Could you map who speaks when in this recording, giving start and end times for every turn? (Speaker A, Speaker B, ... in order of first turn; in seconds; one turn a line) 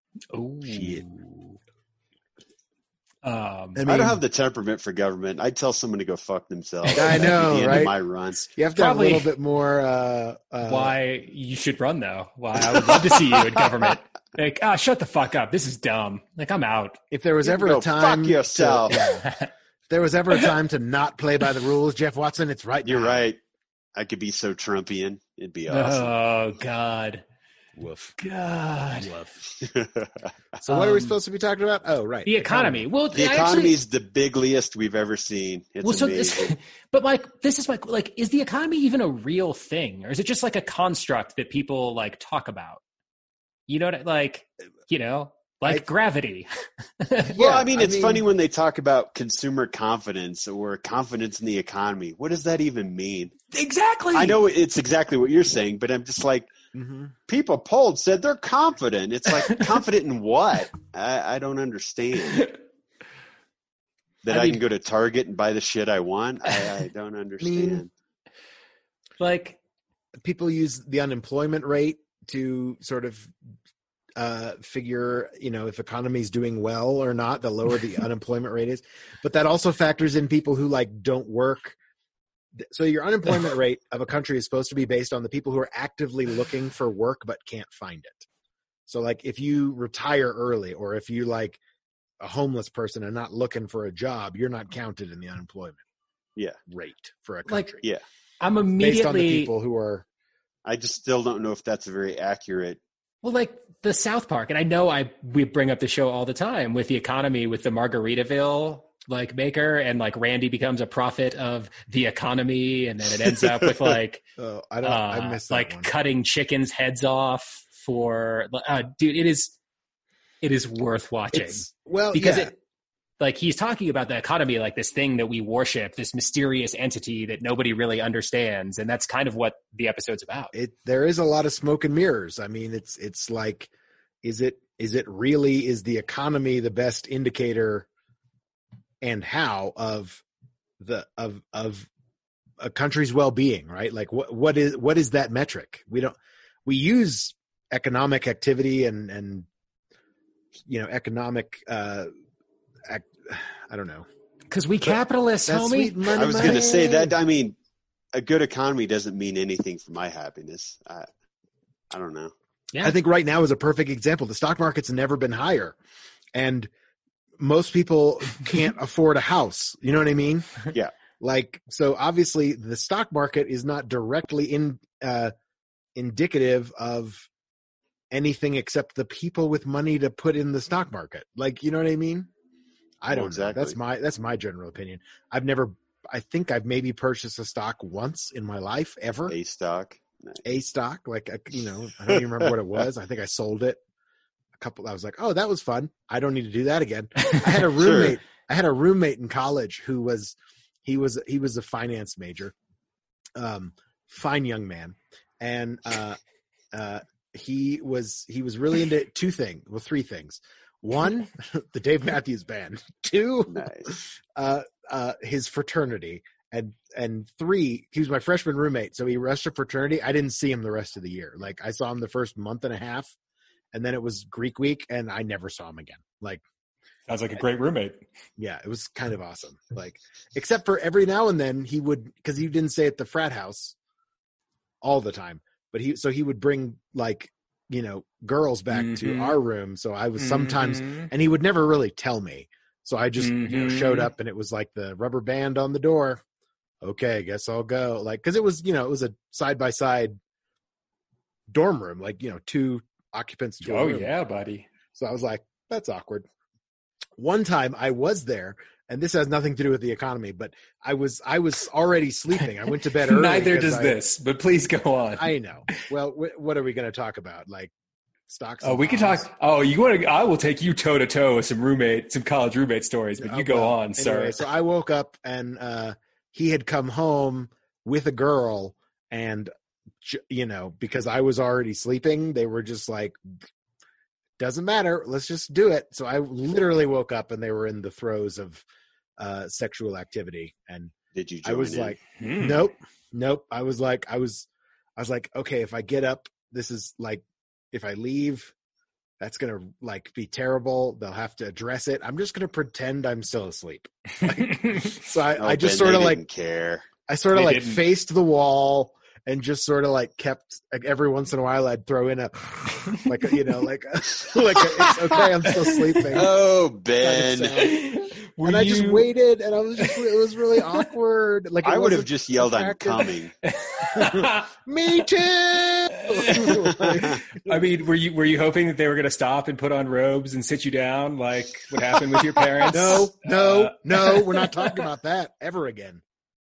Speaker A: 0.3-1.5
Speaker A: 3.2-3.8
Speaker B: 3.8-4.2
Speaker C: 3.9-8.4
Speaker A: 6.9-7.8
Speaker B: 6.9-11.0
Speaker A: 8.7-9.3
Speaker A: 10.6-17.0
Speaker C: 12.8-13.6
Speaker B: 17.1-19.2
Speaker C: 17.4-19.0
Speaker A: 18.9-19.5
Speaker B: 19.9-23.3
Speaker C: 22.8-23.4
Speaker C: 23.9-26.1
Speaker A: 25.7-27.2
Speaker B: 27.8-28.2
Speaker A: 28.2-29.1
Speaker B: 28.9-29.4
Speaker C: 29.6-30.3
Speaker B: 30.6-32.9
Speaker A: 30.7-31.1
Speaker A: 32.2-33.8
Speaker C: 33.1-36.5
Speaker A: 35.8-42.8
Speaker A: 43.7-46.5
Speaker A: 47.0-47.4
Speaker C: 47.3-53.4
Speaker B: 47.3-48.2
Speaker A: 53.5-54.4
Speaker C: 54.1-56.5
Speaker B: 56.7-57.1
Speaker C: 57.3-62.5
Speaker A: 64.2-64.6
Speaker C: 64.2-67.9
Speaker B: 67.4-67.8
Speaker A: 69.2-69.6
Speaker B: 70.2-73.3
Speaker B: 74.2-81.8
Speaker B: 82.6-88.3
Speaker B: 88.9-91.6
Speaker B: 92.2-95.8
Speaker B: 96.7-97.8
Speaker A: 97.5-97.8
Speaker A: 98.4-99.5
Speaker B: 98.8-100.0
Speaker C: 100.6-102.8
Speaker A: 103.2-114.2
Speaker B: 114.4-115.9
Speaker A: 114.8-119.6
Speaker A: 120.4-122.5
Speaker B: 121.3-122.5
Speaker A: 123.2-130.5
Speaker B: 130.5-133.7
Speaker B: 134.2-137.9
Speaker B: 139.0-140.2
Speaker B: 140.8-141.9
Speaker B: 142.6-149.5
Speaker B: 150.7-152.1
Speaker B: 152.8-154.1
Speaker A: 154.5-156.8
Speaker B: 155.5-157.1
Speaker C: 156.1-157.6
Speaker C: 158.1-161.1
Speaker C: 161.9-162.3
Speaker B: 162.8-165.8
Speaker B: 166.3-166.7
Speaker B: 167.4-170.7
Speaker B: 171.2-175.3
Speaker B: 175.9-177.3
Speaker B: 178.1-182.3
Speaker B: 183.0-189.3
Speaker C: 183.1-183.8
Speaker C: 189.3-190.4
Speaker B: 190.4-193.8
Speaker B: 194.6-202.5
Speaker C: 197.7-198.1
Speaker B: 203.3-206.2
Speaker B: 206.7-223.1
Speaker C: 213.5-213.9
Speaker B: 223.7-226.4
Speaker A: 227.1-228.0
Speaker B: 228.4-233.8
Speaker B: 234.8-246.2
Speaker A: 238.7-239.4
Speaker A: 240.2-241.1
Speaker A: 243.2-244.1
Speaker B: 246.8-250.2
Speaker B: 251.5-254.1
Speaker A: 253.6-254.7
Speaker B: 254.9-256.3
Speaker B: 257.2-264.0
Speaker A: 262.4-265.8
Speaker B: 265.1-267.7
Speaker B: 268.3-269.3
Speaker A: 268.6-274.4
Speaker B: 273.2-279.5
Speaker B: 280.0-283.2
Speaker B: 284.4-288.6
Speaker B: 289.2-298.5
Speaker C: 291.1-292.0
Speaker A: 292.2-292.6
Speaker B: 299.2-306.2
Speaker A: 304.2-305.0
Speaker C: 305.3-306.9
Speaker B: 307.1-316.3
Speaker A: 307.3-307.8
Speaker A: 314.6-316.2
Speaker C: 316.1-317.7
Speaker B: 317.0-317.8
Speaker A: 317.5-319.1
Speaker B: 318.4-323.1
Speaker A: 320.6-320.9
Speaker C: 321.6-323.3
Speaker A: 323.4-324.5
Speaker B: 323.9-327.6
Speaker A: 325.9-334.8
Speaker C: 326.9-327.2
Speaker B: 332.7-336.0